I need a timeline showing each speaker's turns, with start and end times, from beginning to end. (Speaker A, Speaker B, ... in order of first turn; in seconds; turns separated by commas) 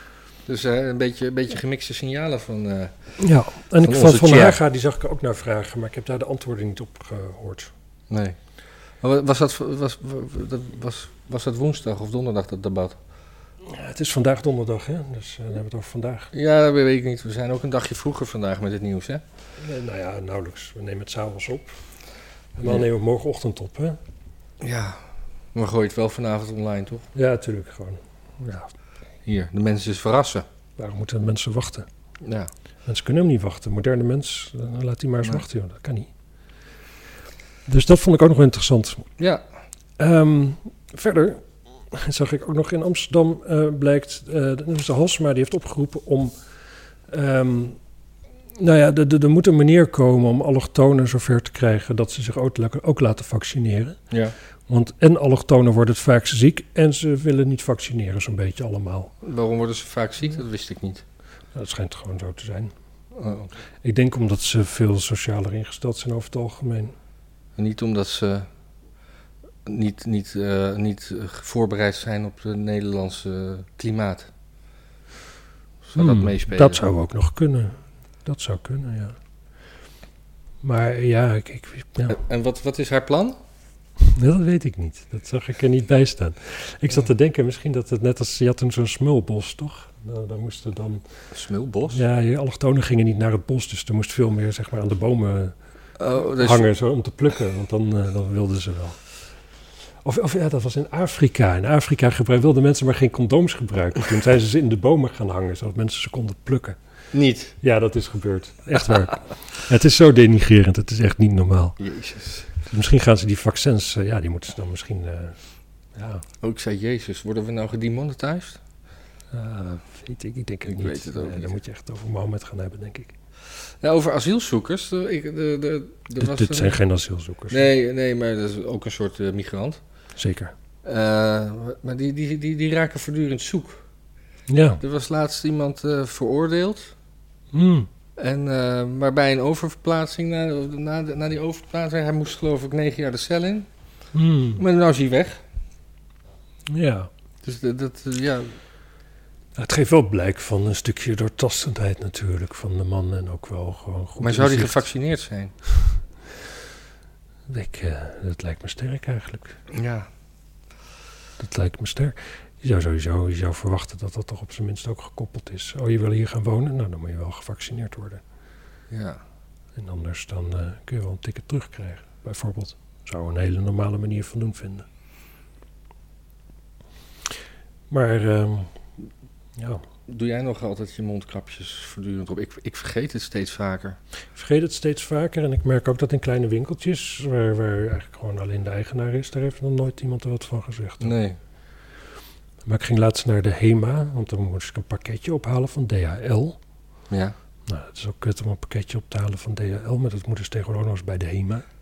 Speaker A: 0.5-2.9, Speaker B: 3.2-7.7, Speaker A: 3.8-4.6, Speaker A: 8.1-8.4, Speaker A: 9.0-13.0, Speaker B: 13.7-16.3, Speaker A: 16.3-19.2, Speaker B: 19.6-21.8, Speaker B: 22.6-24.0, Speaker A: 24.6-25.0, Speaker A: 25.5-27.1, Speaker B: 27.1-28.7, Speaker A: 29.3-30.4, Speaker B: 30.8-31.9, Speaker A: 32.2-32.5, Speaker B: 32.9-36.1, Speaker B: 37.7-39.0, Speaker B: 40.0-46.3, Speaker B: 47.1-47.8, Speaker B: 48.6-54.0, Speaker B: 54.7-59.1, Speaker A: 59.2-61.0, Speaker B: 61.5-62.7, Speaker A: 63.1-63.5, Speaker B: 63.8-66.9, Speaker A: 67.6-68.5, Speaker A: 69.7-74.3, Speaker A: 75.9-76.8, Speaker B: 76.0-79.2, Speaker B: 80.6-82.2, Speaker A: 82.1-83.4, Speaker B: 84.0-91.0, Speaker A: 91.3-92.0, Speaker B: 91.9-95.5, Speaker A: 96.0-96.7, Speaker B: 96.4-99.0, Speaker B: 100.0-106.8, Speaker A: 107.1-107.5, Speaker B: 107.6-111.8, Speaker A: 111.8-112.5, Speaker B: 112.6-115.4, Speaker B: 116.0-116.2, Speaker A: 116.4-118.6, Speaker B: 119.3-123.1, Speaker A: 120.7-121.6, Speaker A: 123.8-126.8, Speaker B: 126.2-127.7, Speaker A: 127.5-129.8, Speaker B: 130.2-130.5, Speaker A: 130.8-133.8, Speaker B: 134.5-134.8, Speaker A: 134.8-136.9, Speaker B: 137.5-137.9, Speaker A: 138.2-143.7, Speaker B: 144.1-144.6, Speaker A: 144.6-145.4, Speaker B: 146.7-147.1, Speaker A: 147.4-148.6, Speaker B: 149.6-154.8, Speaker A: 154.2-155.5, Speaker B: 157.5-159.6, Speaker A: 159.7-160.1, Speaker B: 161.4-168.2, Speaker A: 168.9-169.2, Speaker B: 169.8-174.9, Speaker B: 177.9-178.8, Speaker B: 179.6-179.8, Speaker A: 180.1-184.0, Speaker B: 184.3-191.1, Speaker A: 191.0-191.4, Speaker B: 192.7-196.6, Speaker B: 197.7-201.7